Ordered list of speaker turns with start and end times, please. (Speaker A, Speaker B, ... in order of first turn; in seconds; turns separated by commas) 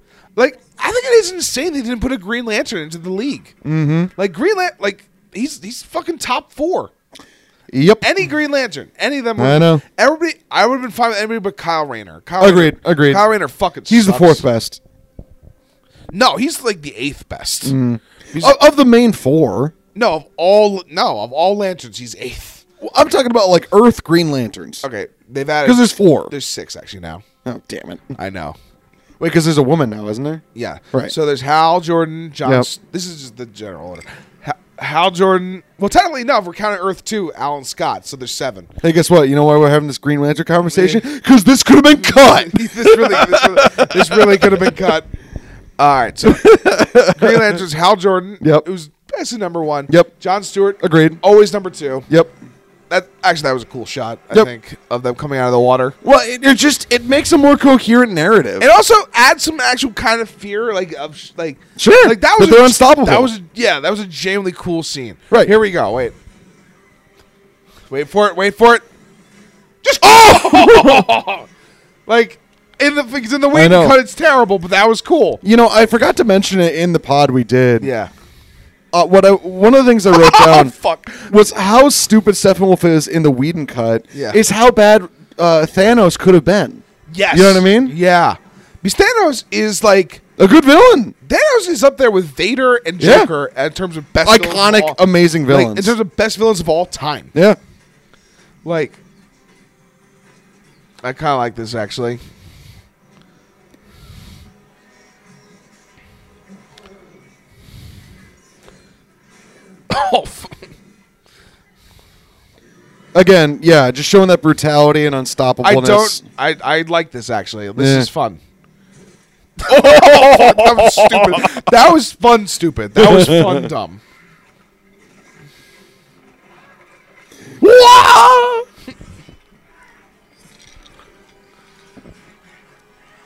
Speaker A: 0.3-3.5, Speaker B: 3.6-4.1, Speaker A: 4.2-6.9, Speaker B: 7.7-8.1, Speaker A: 8.0-14.4, Speaker B: 9.4-9.8, Speaker B: 12.4-13.2, Speaker B: 13.9-14.8, Speaker A: 16.1-17.8, Speaker B: 17.6-19.7, Speaker A: 18.3-18.6, Speaker A: 19.9-22.6, Speaker B: 22.8-24.9, Speaker A: 24.8-27.2, Speaker B: 25.6-26.3, Speaker B: 27.4-28.2, Speaker A: 28.1-28.6, Speaker B: 29.2-31.1, Speaker A: 30.5-38.7, Speaker B: 38.8-44.7, Speaker A: 40.7-41.0, Speaker A: 42.0-45.1, Speaker A: 45.8-52.1, Speaker B: 46.2-47.6, Speaker B: 48.4-48.6, Speaker B: 50.8-51.2, Speaker B: 52.1-52.3, Speaker A: 52.9-56.0, Speaker B: 56.0-58.7, Speaker A: 58.6-66.2, Speaker B: 61.8-63.3, Speaker A: 67.9-68.8, Speaker A: 69.8-71.5, Speaker B: 70.1-71.0, Speaker A: 72.1-75.4, Speaker B: 73.5-74.0, Speaker B: 75.4-77.9, Speaker A: 77.8-78.1, Speaker B: 78.9-80.7, Speaker A: 80.1-81.3, Speaker B: 81.3-87.9, Speaker A: 84.1-84.4, Speaker A: 87.1-90.2, Speaker B: 90.4-91.1, Speaker A: 91.2-97.3, Speaker B: 93.0-93.3, Speaker B: 94.2-96.0, Speaker A: 98.6-99.0, Speaker A: 101.0-102.2, Speaker A: 109.9-110.6, Speaker B: 113.1-116.2, Speaker A: 115.6-118.4, Speaker B: 117.8-118.1, Speaker A: 119.6-124.0, Speaker B: 119.7-121.7, Speaker B: 123.0-123.7, Speaker B: 127.6-128.6